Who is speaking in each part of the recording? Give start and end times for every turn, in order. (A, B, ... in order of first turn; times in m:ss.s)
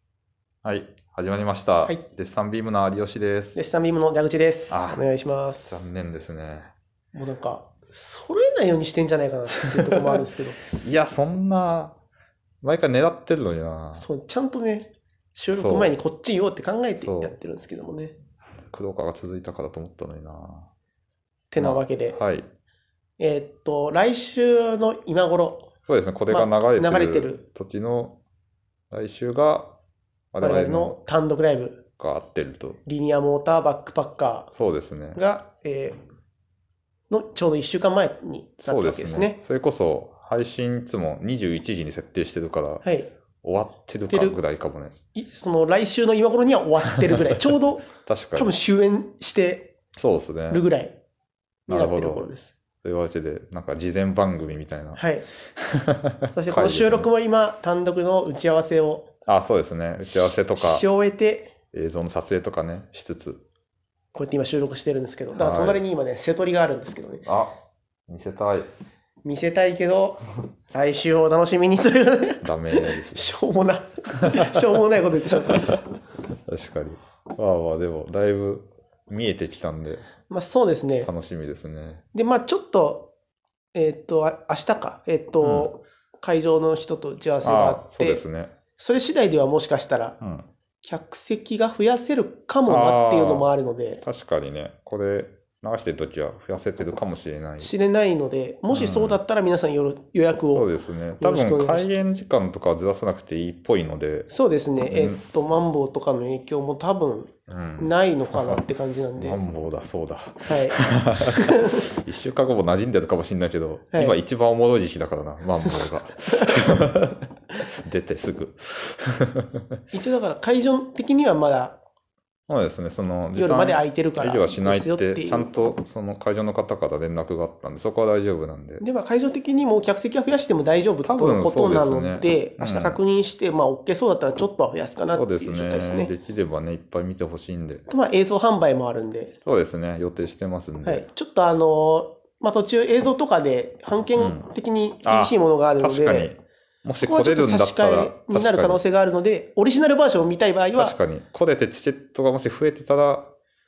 0:00.6-0:03.6 A
0:03.6-0:05.9 B
0:04.7-0:05.1 A
0:05.6-0:06.7 A
0:07.2-0:10.6 B
0:10.7-0:12.0 A
0:12.6-0:14.1 A
0:13.9-0:18.1 B
0:15.5-0:16.0 A
0:17.0-0:17.4 A
0:18.7-0:20.7 A
0:21.5-0:22.2 B
0:21.6-0:22.5 A
0:23.2-0:25.7 B
0:25.9-0:28.2 A
0:26.3-0:27.4 B
0:28.9-0:29.7 A
0:30.3-0:31.0 A
0:30.4-0:31.8 B
0:32.0-0:32.8 A
0:32.9-0:34.5 B
0:34.5-0:35.2 A
0:35.2-0:36.0 B
0:37.1-0:39.4 B
0:38.6-0:42.8 A
0:42.8-0:43.1 B
0:43.4-0:45.0 A
0:44.1-0:44.4 B
0:45.1-0:49.7 B
0:47.1-0:47.4 A
0:47.9-0:48.5 A
0:50.0-0:50.6 A
0:50.5-0:51.0 B
0:51.7-0:52.3 A
0:51.7-0:52.5 B
0:52.8-0:55.0 A
0:55.0-0:55.3 B
0:55.6-0:57.1 A
0:56.3-0:59.1 B
0:59.3-1:00.9 A
1:00.1-1:01.5 B
1:01.7-1:03.4 A
1:04.1-1:07.3 B
1:05.4-1:05.8 A
1:07.2-1:07.6 A
1:08.1-1:08.7 A
1:09.2-1:10.2 B
1:10.7-1:15.8 B
1:12.4-1:13.4 A
1:15.5-1:15.8 A
1:16.5-1:20.0 A
1:20.3-1:21.1 B
1:21.0-1:22.0 A
1:22.1-1:23.1 B
1:23.7-1:28.2 B
1:25.4-1:25.7 A
1:27.4-1:28.5 A
1:28.8-1:30.2 B
1:30.2-1:30.5 A
1:30.8-1:34.0 B
1:32.7-1:33.5 A
1:34.0-1:37.7 A
1:37.6-1:40.7 B
1:38.7-1:39.2 A
1:40.5-1:44.3 A
1:41.2-1:42.0 B
1:44.3-1:49.4 B
1:44.9-1:45.5 A
1:47.5-1:48.6 A
1:49.2-1:57.2 A
1:50.5-1:51.8 B
1:53.9-1:54.2 B
1:57.8-1:59.6 A
1:59.9-2:01.8 B
2:02.5-2:08.8 A
2:03.3-2:05.5 B
2:08.8-2:16.1 B
2:11.0-2:13.0 A
2:15.1-2:17.9 A
2:17.9-2:19.4 B
2:19.5-2:21.1 A
2:20.8-2:26.3 B
2:24.2-2:24.5 A
2:25.0-2:28.8 A
2:27.0-2:31.0 B
2:30.8-2:33.3 A